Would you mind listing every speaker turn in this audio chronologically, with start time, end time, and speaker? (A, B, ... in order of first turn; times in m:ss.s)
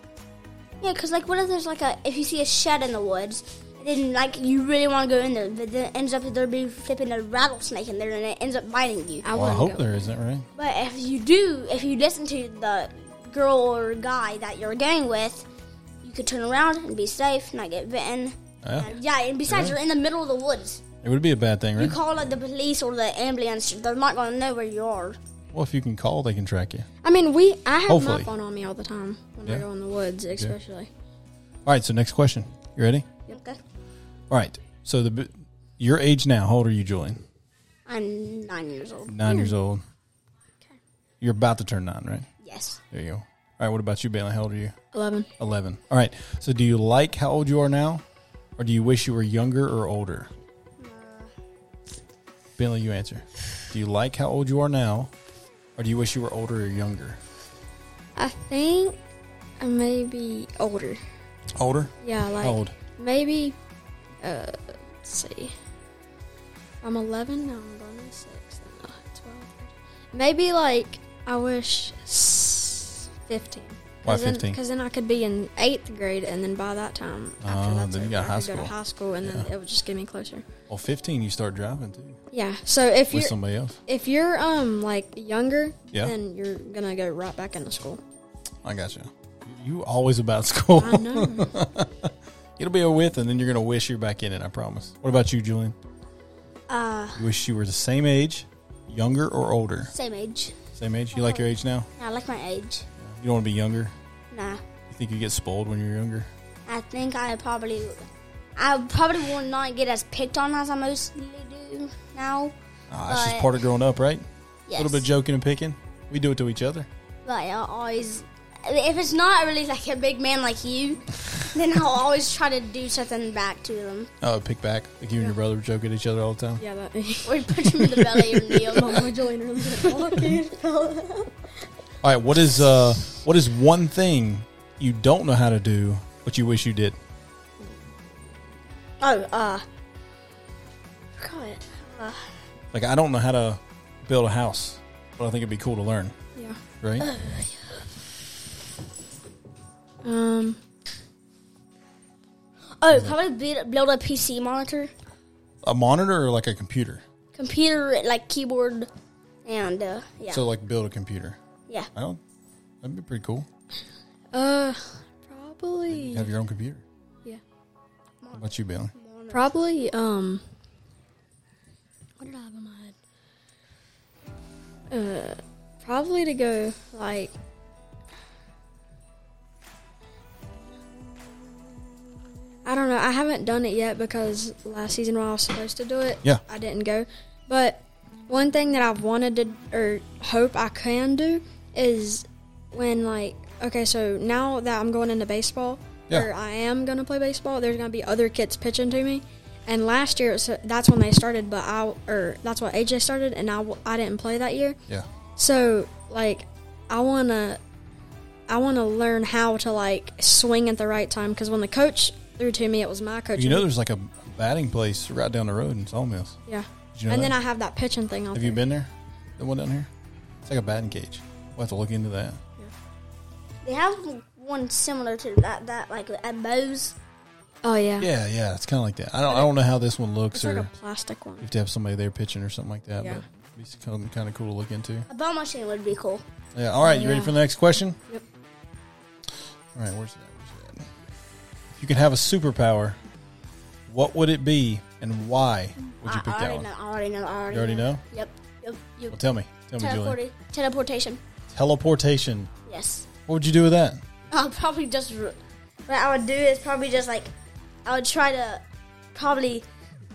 0:00.8-0:09.3 A
0:09.2-0:10.0 B
0:09.3-0:10.5 C
0:10.6-0:15.4 A
0:16.0-0:20.8 A
0:18.6-0:18.9 C
0:19.5-0:19.7 C
0:21.0-0:22.0 C
0:21.8-0:25.2 A
0:25.5-0:26.9 C
0:27.0-0:30.9 B
0:27.9-0:28.3 C
0:31.6-0:33.1 C
0:33.3-0:33.6 A
0:34.3-0:37.2 C
0:37.9-0:39.2 A
0:39.1-0:39.8 C
0:39.2-0:39.5 B
0:41.2-0:42.3 C
0:42.4-0:42.8 A
0:42.9-0:44.7 C
0:44.9-0:45.3 B
0:45.4-0:48.0 C
0:48.6-0:50.3 C
0:50.8-0:51.3 A
0:52.6-0:55.1 C
0:55.8-0:57.2 C
0:58.2-0:59.0 B
0:59.6-1:01.0 B
1:01.6-1:02.7 C
1:02.0-1:03.6 B
1:04.2-1:05.5 B
1:06.8-1:20.4 B
1:14.0-1:14.6 C
1:17.4-1:19.4 C
1:20.7-1:22.2 C
1:22.3-1:23.3 B
1:23.1-1:23.8 C
1:23.8-1:28.0 B
1:28.6-1:35.7 C
1:30.8-1:31.5 B
1:36.7-1:37.2 A
1:37.2-1:39.9 C
1:39.9-1:40.6 A
1:40.8-1:41.9 C
1:41.1-1:41.5 A
1:42.0-1:42.8 A
1:43.0-1:43.9 C
1:44.3-1:44.6 A
1:44.9-1:46.3 C
1:46.7-1:48.0 A
1:48.6-1:52.5 A
1:52.9-1:54.2 C
1:53.1-1:53.5 A
1:54.7-1:55.0 A
1:54.8-1:56.9 C
1:57.2-2:04.1 A
2:04.2-2:06.6 C
2:06.6-2:10.4 B
2:07.2-2:09.1 A
2:09.7-2:11.3 A
2:12.0-2:17.0 C
2:19.0-2:19.6 A
2:21.2-2:22.3 A
2:22.7-2:26.1 C
2:26.8-2:27.1 C
2:27.0-2:27.8 A
2:30.0-2:30.6 B
2:32.8-2:34.9 A
2:35.6-2:37.0 C
2:37.3-2:38.9 A
2:39.4-2:40.4 A
2:40.3-2:41.4 C
2:41.9-2:42.2 C
2:42.8-2:43.4 C
2:44.3-2:46.3 B
2:45.9-2:46.8 C
2:48.2-2:49.5 A
2:48.3-2:48.9 C
2:49.3-2:50.4 B
2:52.2-2:52.9 B
2:54.9-2:57.3 B
3:02.6-3:24.8 B
3:25.4-3:27.6 B
3:28.5-3:33.7 B
3:33.4-3:36.4 C
3:36.5-3:38.6 B
3:36.9-3:37.4 C
3:38.3-3:39.9 C
3:40.4-3:42.4 C
3:43.6-3:46.9 A
3:47.6-3:48.1 B
3:48.0-3:50.7 C
3:50.3-3:51.4 B
3:51.4-3:55.0 C
3:55.1-3:56.2 A
3:56.5-3:58.0 C
3:56.8-3:57.3 B
3:59.7-4:00.9 C
4:01.7-4:03.0 C
4:03.9-4:06.7 C
4:06.0-4:09.2 A
4:07.5-4:08.0 C
4:09.1-4:10.2 C
4:09.8-4:11.2 A
4:11.5-4:12.5 C
4:12.7-4:13.1 A
4:13.3-4:14.0 C
4:14.3-4:17.3 A
4:17.8-4:18.6 A
4:19.1-4:19.6 A